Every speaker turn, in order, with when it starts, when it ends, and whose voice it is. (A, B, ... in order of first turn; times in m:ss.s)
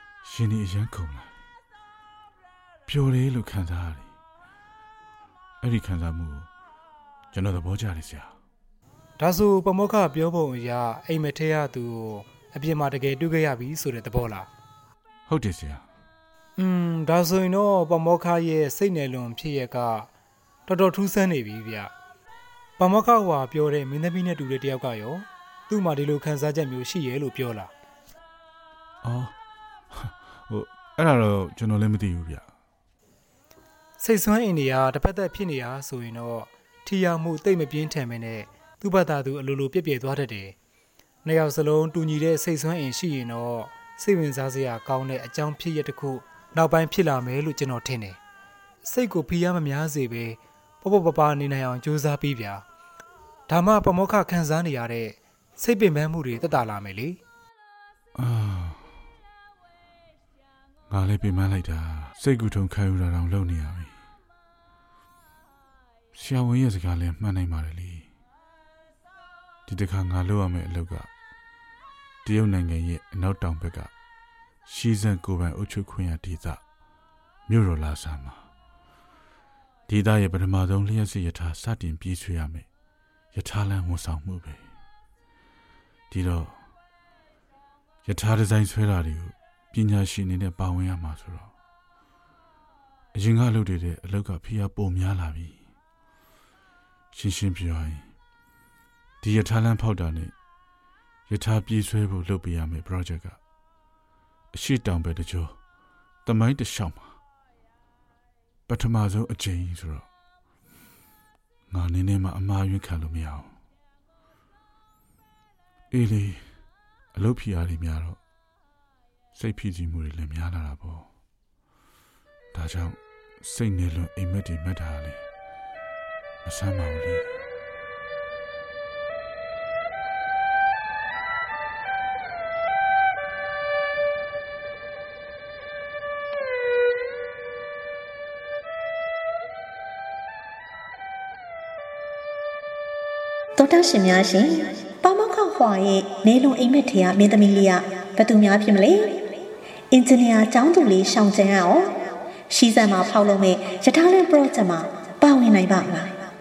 0:00.2-0:01.3 A
0:02.9-0:04.1 A
0:05.6-0:06.5 A
0:07.3-0:08.3 A
0:09.2-0:14.5 B
0:15.3-0:15.8 A
0:16.6-0:20.1 B
0:20.7-0:21.9 B
0:22.8-0:27.7 B
0:29.0-0:29.3 A
0:29.9-0:32.5 A
0:34.0-0:40.6 B
0:41.2-0:48.2 B
0:48.8-0:52.6 B
0:53.5-0:57.2 B
0:58.2-0:58.8 A
1:00.9-1:03.9 A
1:06.1-1:08.1 A
1:09.7-1:11.1 A
1:12.2-1:13.9 A
1:14.7-1:16.6 A
1:17.5-1:18.4 A
1:19.9-1:22.7 A
1:23.3-1:24.6 A
1:26.1-1:26.6 A
1:28.1-1:31.5 A
1:33.1-1:35.6 A
1:37.1-1:38.0 A
1:39.2-1:40.3 A
1:41.3-1:43.4 A
1:44.5-1:45.6 A
1:46.2-1:47.2 A
1:48.7-1:50.1 A
1:51.7-1:53.5 A
1:55.9-1:56.5 A
1:57.1-1:58.2 A
1:59.3-2:01.1 A
2:02.5-2:05.2 A
2:06.4-2:07.4 A
2:23.6-2:29.3 C
2:29.9-2:36.2 C